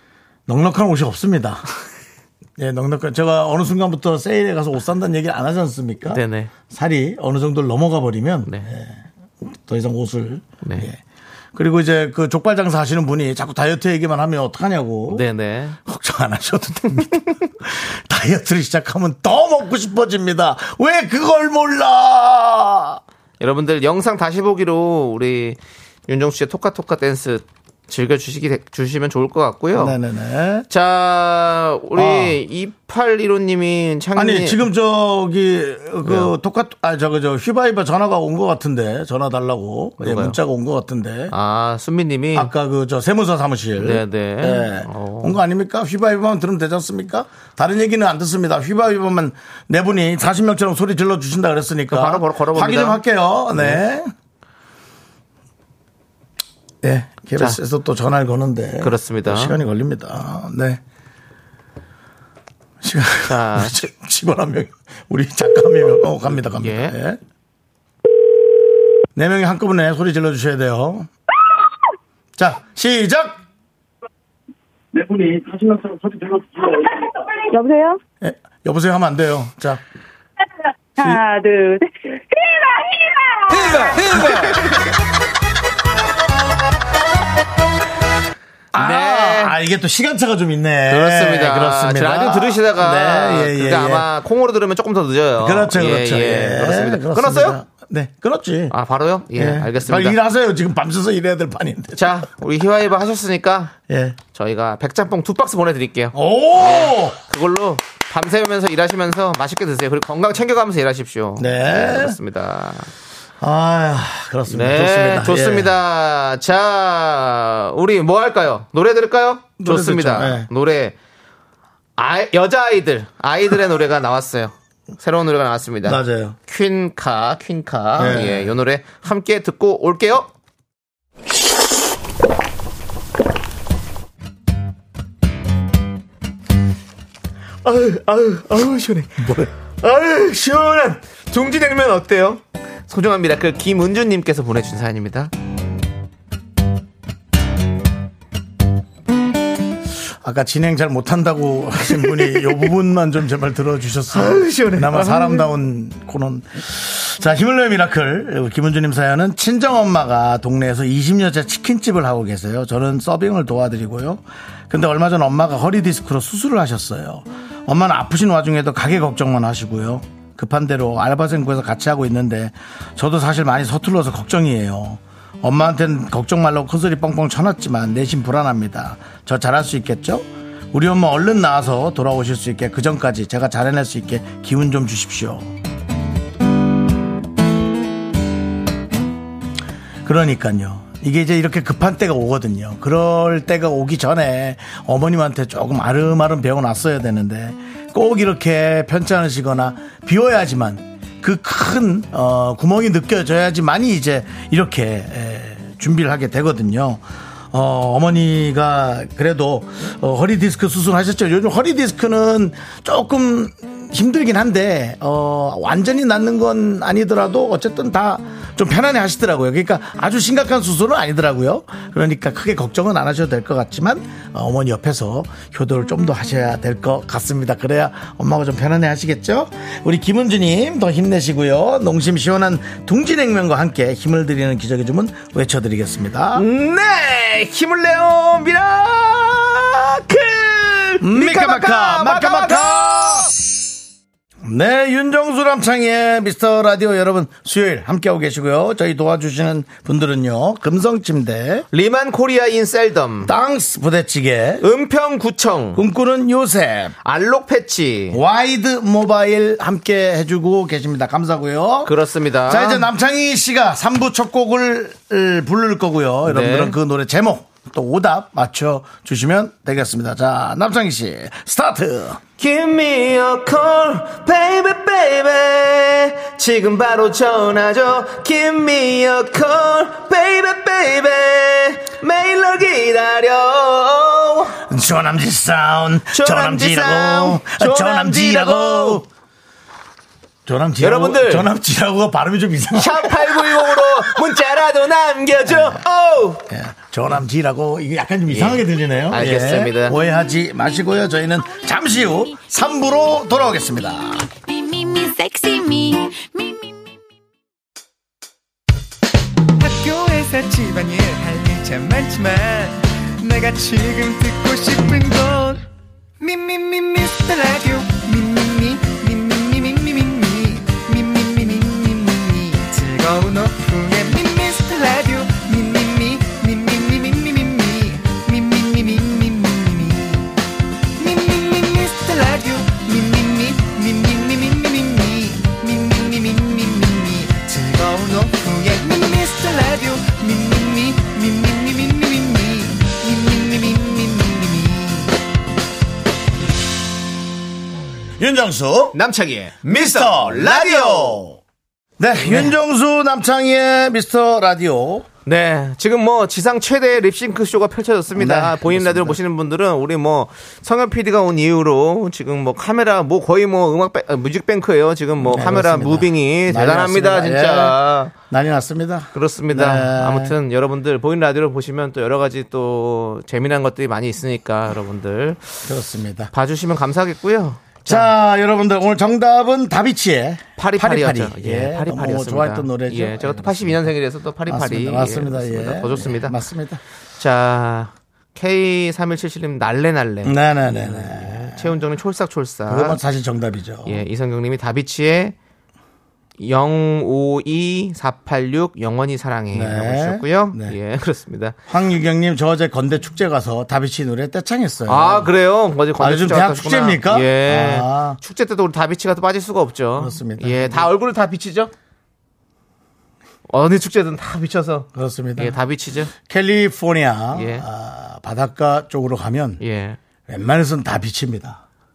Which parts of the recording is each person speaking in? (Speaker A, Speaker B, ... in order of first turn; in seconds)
Speaker A: 0.5-1.6, 2.6-11.0, 11.6-15.2, 15.9-23.0, 29.7-30.7, 31.9-32.4, 34.1-41.3, 42.3-54.1, 56.8-60.8, 62.8-67.2, 69.2-71.1, 72.4-73.4, 78.2-79.8, 84.1-84.5, 88.7-94.1, 95.4-98.8, 99.3-102.2, 103.9-104.2, 106.1-107.2, 111.4-112.2, 113.4-115.7, 119.6-120.5, 125.8-126.4, 128.0-128.5, 139.2-139.5, 150.2-185.5, 190.1-236.4, 241.0-243.3, 244.4-251.7, 253.2-254.7, 255.8-256.9, 258.1-261.9, 262.5-272.2, 284.7-289.1, 290.5-294.2, 295.5-295.8, 296.5-304.3, 348.2-349.0, 349.7-351.4, 352.0-355.1, 358.1-359.2, 365.2-370.3, 375.6-376.3, 377.9-383.9, 384.5-386.8, 390.2-391.7, 392.7-394.0, 399.5-400.8, 401.7-405.3, 406.0-408.2, 410.0-410.9, 414.9-415.6, 416.1-419.6, 420.3-421.6
Speaker B: 6.1-6.5, 8.5-8.7, 10.6-10.9, 15.1-15.8, 23.4-30.0, 30.7-34.6, 36.0-36.3, 40.0-40.4, 41.3-42.5, 43.8-45.4, 51.9-53.0, 53.6-53.8, 58.8-59.6, 63.3-63.9, 66.5-67.0, 88.8-89.5, 90.9-97.6, 98.7-100.2, 102.0-103.7, 104.3-112.9, 114.5-121.0, 122.0-130.3, 137.7-145.3, 151.9-152.7, 154.1-155.5, 236.3-243.3, 251.7-253.3, 254.6-255.8, 257.0-258.2, 261.9-262.9, 266.3-266.8, 272.4-284.6, 286.1-289.0, 290.8-291.5, 292.8-296.4, 298.3-300.0, 348.9-351.2, 352.2-352.5, 355.3-368.1, 369.1-375.6, 376.3-378.1, 380.6-386.4, 387.2-393.0, 393.9-395.4, 396.4-401.6, 404.9-411.7, 413.5-416.1, 417.4-417.6, 419.6-420.0
Speaker C: 75.0-78.0, 81.0-84.0
Speaker D: 304.5-306.6
Speaker E: 309.6-315.6, 316.2-330.3, 331.0-345.1